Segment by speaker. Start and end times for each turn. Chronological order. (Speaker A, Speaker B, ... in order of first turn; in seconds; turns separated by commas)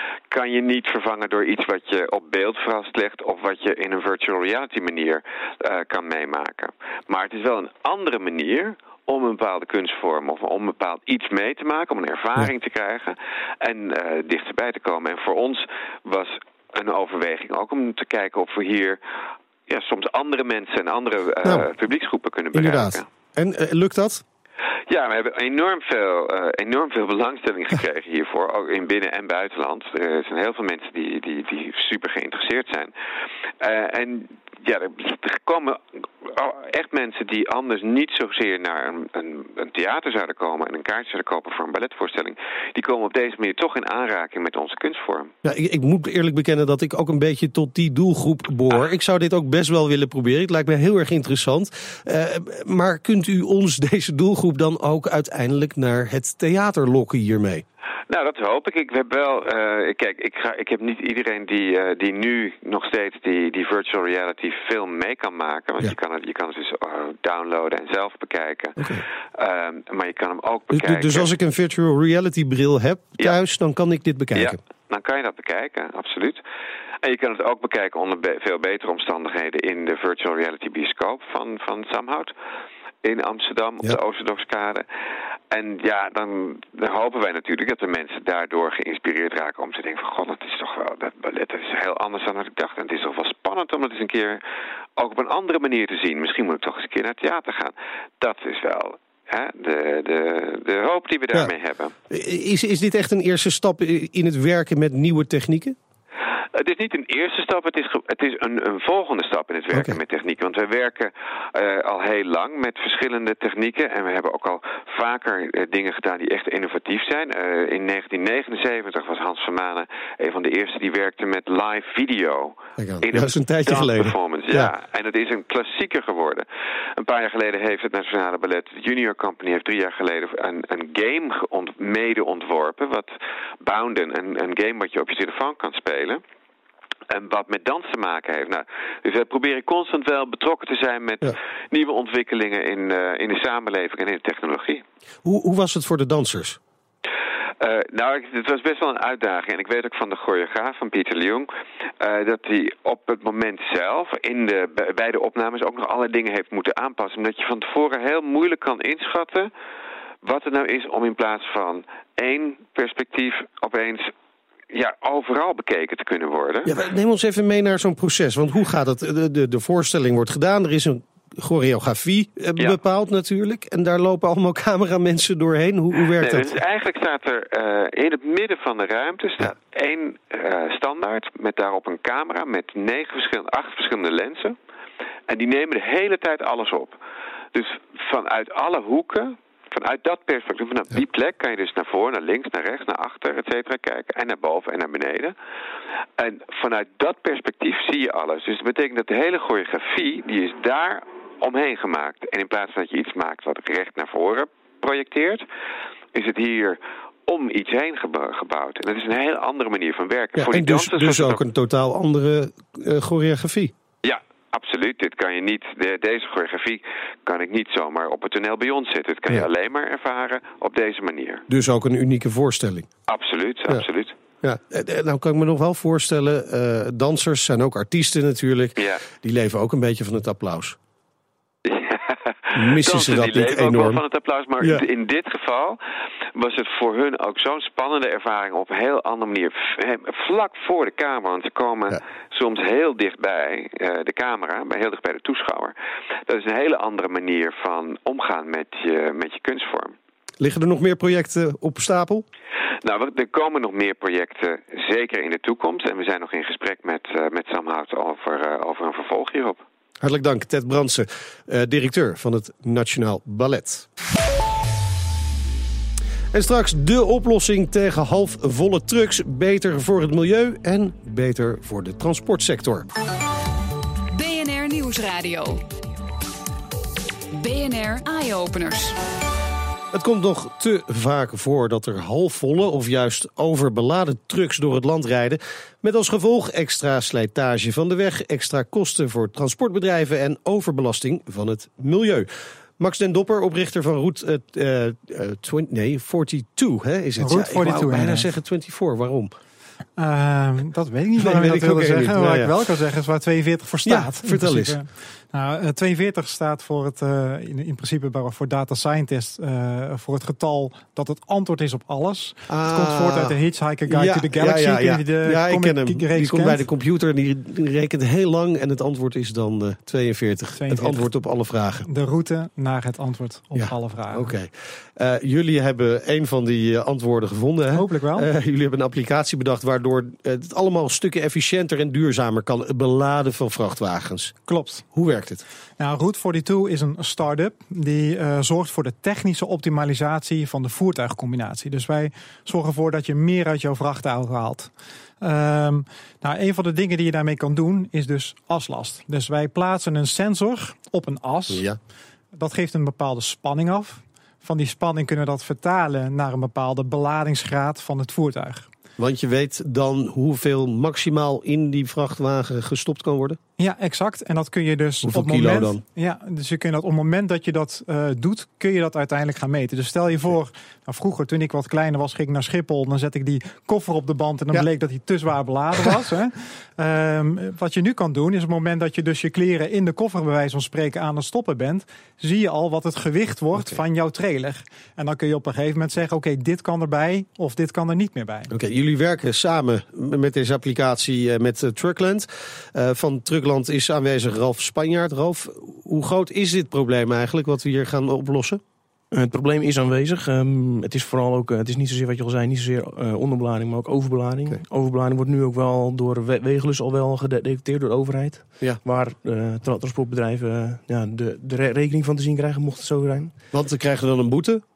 Speaker A: 0.3-19.0, Speaker A: 19.7-23.1, Speaker B: 22.5-24.2, Speaker A: 24.9-32.9, Speaker A: 33.6-45.3, Speaker B: 45.4-57.6, Speaker A: 58.1-68.9, Speaker B: 68.8-69.0, Speaker A: 69.4-71.3, Speaker B: 70.7-74.6, Speaker A: 74.3-76.4, Speaker A: 77.0-82.3, Speaker A: 83.0-84.9, Speaker A: 85.5-94.4, Speaker A: 95.0-101.9, Speaker B: 102.1-105.8, Speaker A: 106.5-126.5, Speaker B: 109.7-110.0, Speaker B: 122.8-124.7, Speaker A: 127.0-133.1, Speaker A: 133.6-136.2, Speaker A: 137.1-144.8, Speaker B: 145.2-146.6, Speaker A: 147.6-151.5, Speaker A: 152.0-159.5, Speaker A: 160.2-164.1, Speaker A: 164.7-166.7, Speaker B: 166.7-176.6, Speaker A: 176.1-184.6, Speaker A: 185.3-187.0, Speaker A: 187.5-195.3, Speaker A: 196.2-205.4, Speaker A: 206.1-211.4, Speaker B: 210.4-213.7, Speaker A: 214.0-221.4, Speaker B: 221.5-222.9, Speaker A: 223.1-224.2, Speaker B: 224.4-230.8, Speaker A: 228.8-229.0, Speaker A: 231.7-235.8, Speaker B: 232.6-234.0, Speaker A: 236.3-245.7, Speaker A: 246.3-249.9, Speaker B: 250.4-252.3, Speaker A: 252.8-259.6, Speaker B: 260.0-263.9, Speaker B: 266.3-272.9, Speaker C: 274.1-275.6, Speaker C: 277.3-279.0, Speaker B: 279.9-299.3, Speaker D: 297.2-298.3, Speaker D: 300.0-316.6, Speaker B: 301.2-302.6, Speaker B: 303.9-304.8, Speaker B: 312.5-321.9, Speaker D: 320.6-321.1, Speaker D: 321.9-324.3, Speaker B: 323.6-334.4, Speaker D: 327.7-328.3, Speaker D: 334.5-334.9, Speaker B: 334.9-335.4, Speaker D: 335.8-351.7, Speaker B: 351.5-351.8, Speaker D: 352.3-358.7, Speaker B: 359.0-363.4, Speaker D: 363.6-388.5, Speaker B: 365.1-365.8, Speaker B: 383.6-383.8, Speaker B: 388.5-398.6, Speaker E: 399.1-413.4, Speaker B: 413.5-414.6